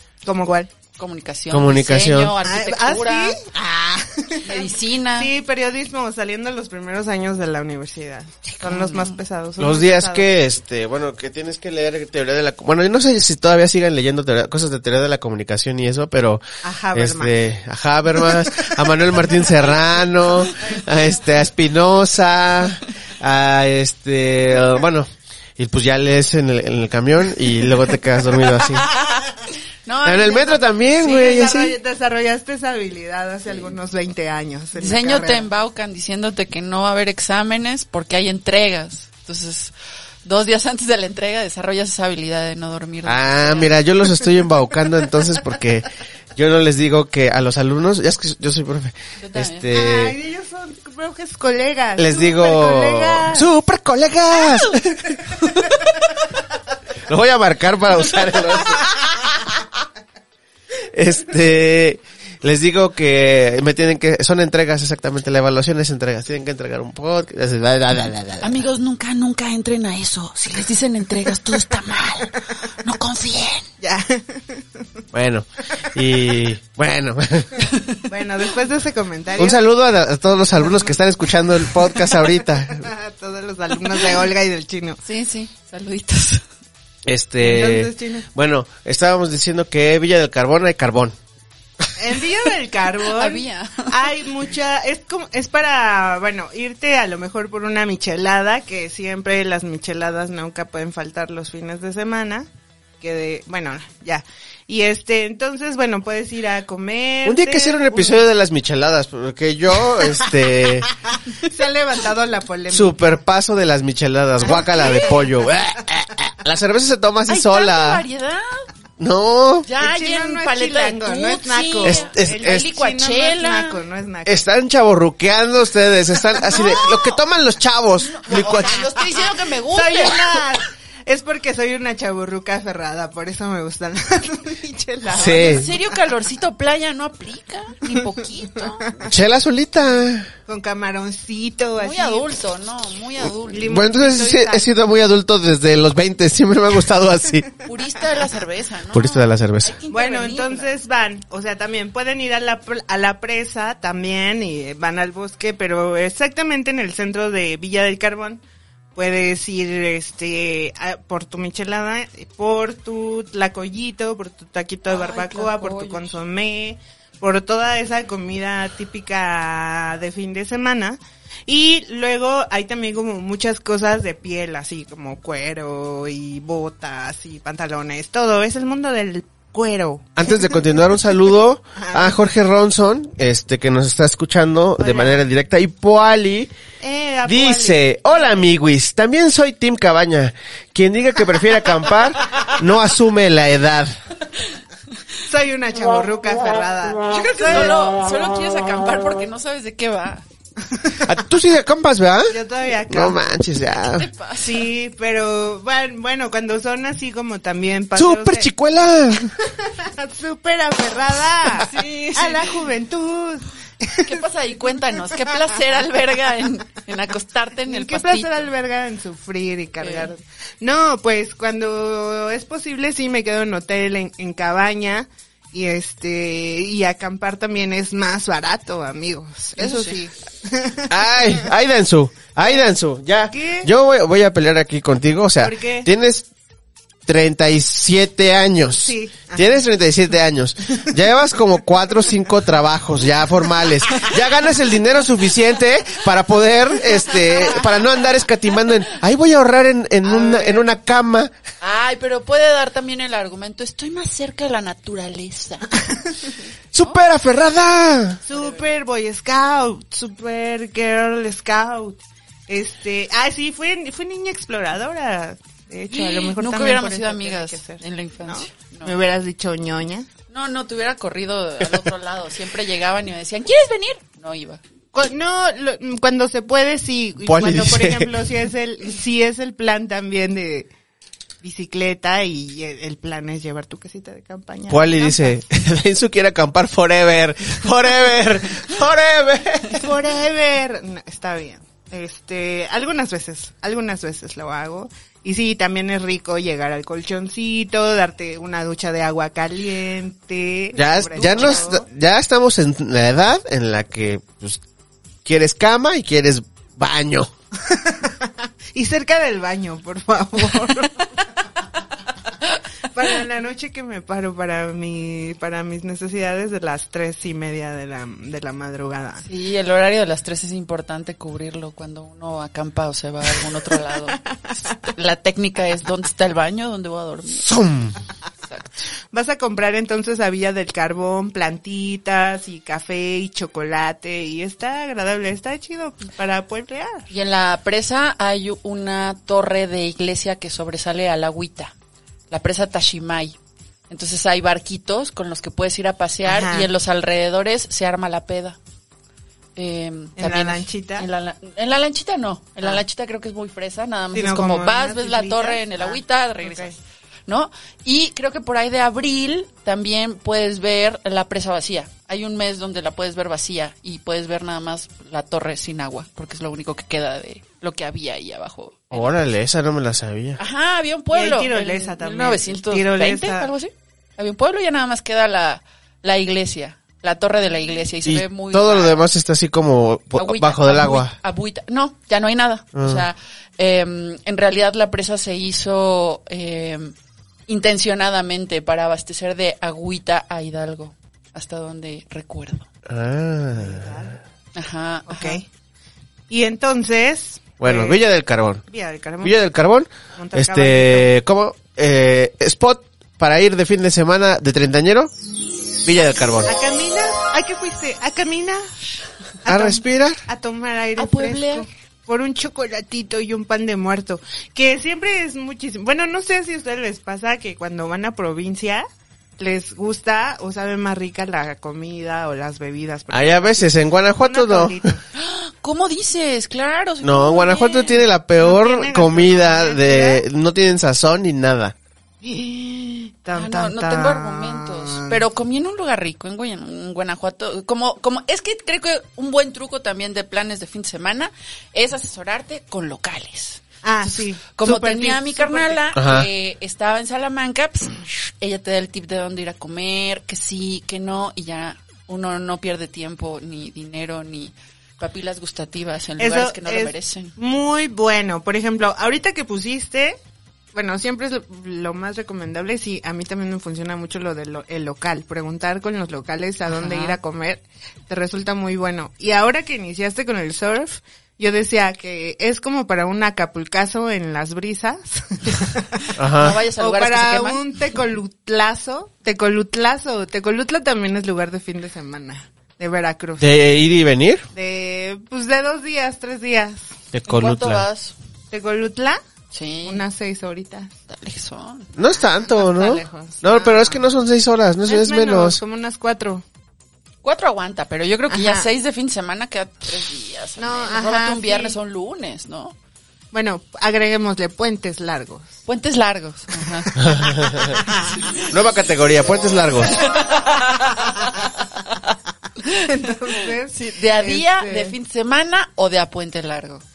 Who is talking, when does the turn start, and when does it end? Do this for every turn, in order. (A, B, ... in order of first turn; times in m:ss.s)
0:00.2-0:00.7 A
0:01.0-0:03.4 B
0:01.5-0:02.3 C
0:02.4-0:10.3 A
0:04.4-0:05.3 B
0:08.6-0:09.2 B
0:09.6-0:16.4 C
0:16.6-0:17.3 A
0:16.9-0:28.9 C
0:28.8-0:29.3 B
0:29.9-0:30.6 B
0:30.0-0:31.8 C
0:30.9-0:35.5 A
0:34.8-0:39.7 B
0:40.2-0:43.8 B
0:43.0-0:50.2 C
0:49.2-0:49.7 B
0:49.7-0:53.5 A
0:52.0-0:55.2 C
0:55.4-0:55.8 B
0:57.0-0:59.1 C
1:00.9-1:08.6 C
1:08.4-1:13.6 B
1:13.8-1:14.6 A
1:15.1-1:17.6 C
1:18.1-1:19.6 A
1:19.4-1:22.9 C
1:20.5-1:21.0 A
1:21.7-1:25.0 A
1:25.0-1:26.4 B
1:27.0-1:31.2 C
1:27.4-1:28.2 A
1:32.0-1:42.5 A
1:33.1-1:34.1 B
1:43.0-1:48.2 A
1:47.2-1:50.9 C
1:51.3-1:53.1 A
1:52.7-1:58.0 C
1:54.4-1:55.2 A
1:57.3-1:58.6 B
1:59.0-1:59.6 C
1:59.6-2:03.8 B
1:59.8-2:04.4 A
2:01.8-2:02.6 C
2:04.2-2:08.9 C
2:06.5-2:07.2 B
2:08.0-2:10.4 B
2:09.7-2:15.8 A
2:15.1-2:15.7 C
2:15.1-2:19.0 B
2:19.0-2:20.3 C
2:20.5-2:22.4 A
2:21.8-2:23.8 B
2:23.5-2:24.7 A
2:23.6-2:27.5 C
2:27.6-2:30.7 B
2:28.9-2:29.8 C
2:29.9-2:38.4 A
2:39.0-3:00.2 A
2:44.9-2:46.1 B
3:00.2-3:06.5 C
3:01.8-3:02.2 A
3:04.8-3:05.2 A
3:06.8-3:08.4 A
3:07.2-3:13.9 C
3:15.3-3:17.8 A
3:17.1-3:20.2 B
3:21.0-3:22.3 C
3:22.3-3:23.4 A
3:22.9-3:24.1 C
3:23.9-3:24.7 B
3:24.4-3:28.5 A
3:28.0-3:29.3 C
3:29.4-3:34.2 A
3:31.6-3:32.6 B
3:34.0-3:38.5 B
3:35.1-3:35.4 A
3:37.6-3:51.0 A
3:39.8-3:40.1 B
3:49.6-3:50.0 B
3:50.9-3:56.3 C
3:53.3-3:53.7 A
3:55.4-3:55.9 A
3:57.0-4:11.3 C
3:58.7-3:59.6 A
4:10.0-4:10.7 A
4:11.6-4:15.7 B
4:16.7-4:18.2 C
4:18.3-4:30.1 A
4:18.3-4:18.6 B
4:25.9-4:28.9 B
4:30.3-4:34.6 B
4:34.9-4:40.7 A
4:37.2-4:38.1 C
4:41.4-4:45.3 A
4:44.7-4:49.8 C
4:49.7-5:01.8 A
5:00.8-5:04.6 C
5:05.2-5:07.3 C
5:07.6-5:11.4 A
5:12.9-5:19.2 A
5:19.2-5:27.5 B
5:24.2-5:24.8 A
5:27.3-5:28.0 C
5:28.5-5:28.8 B
5:29.1-5:37.1 A
5:37.1-5:41.7 B
5:42.3-5:43.4 B
5:43.9-5:48.6 B
5:46.2-5:46.7 A
5:49.6-5:56.8 B
5:50.2-5:51.1 A
5:54.1-5:56.8 A
5:57.3-6:09.1 B
6:08.9-6:10.4 C
6:10.4-6:19.0 B
6:11.1-6:13.5 A
6:18.0-6:21.1 C
6:20.1-6:26.9 B
6:22.8-6:23.1 C
6:27.5-6:32.7 B
6:32.8-6:34.0 C
6:33.6-6:34.2 A
6:34.6-6:35.4 B
6:35.1-6:35.5 A
6:36.3-6:38.0 A
6:37.6-6:38.6 C
6:38.7-6:39.4 A
6:39.2-6:45.1 C
6:40.2-6:41.1 A
6:45.8-6:46.5 C
6:46.4-6:48.6 A
6:49.4-6:58.8 A
6:49.5-6:50.2 C
6:51.0-6:51.7 B
6:59.4-7:05.0 A
7:03.1-7:04.9 C
7:05.1-7:08.0 B
7:07.0-7:11.8 C
7:08.4-7:10.2 A
7:12.2-7:15.2 A
7:13.3-7:37.3 B
7:23.8-7:25.8 A
7:26.0-7:26.3 C
7:36.2-7:40.2 A
7:40.8-8:03.5 A
7:46.7-7:47.2 B
7:56.2-7:56.6 C
7:56.3-7:57.6 B
8:03.4-8:04.5 C
8:04.5-8:06.9 A
8:07.1-8:07.8 C
8:07.3-8:08.1 B
8:08.5-8:09.2 A
8:09.5-8:10.0 B
8:09.8-8:10.9 A
8:11.1-8:11.9 B
8:12.0-8:15.6 C
8:12.1-8:14.0 A
8:14.8-8:16.4 A
8:17.2-8:22.8 B
8:18.3-8:18.7 A
8:20.6-8:21.8 A
8:23.3-8:25.6 A
8:25.7-8:26.9 B
8:26.6-8:28.1 A
8:27.0-8:27.8 C
8:27.9-8:28.5 B
8:28.5-8:30.0 C
8:29.9-8:33.0 B
8:32.8-8:35.0 A
8:33.7-8:36.8 B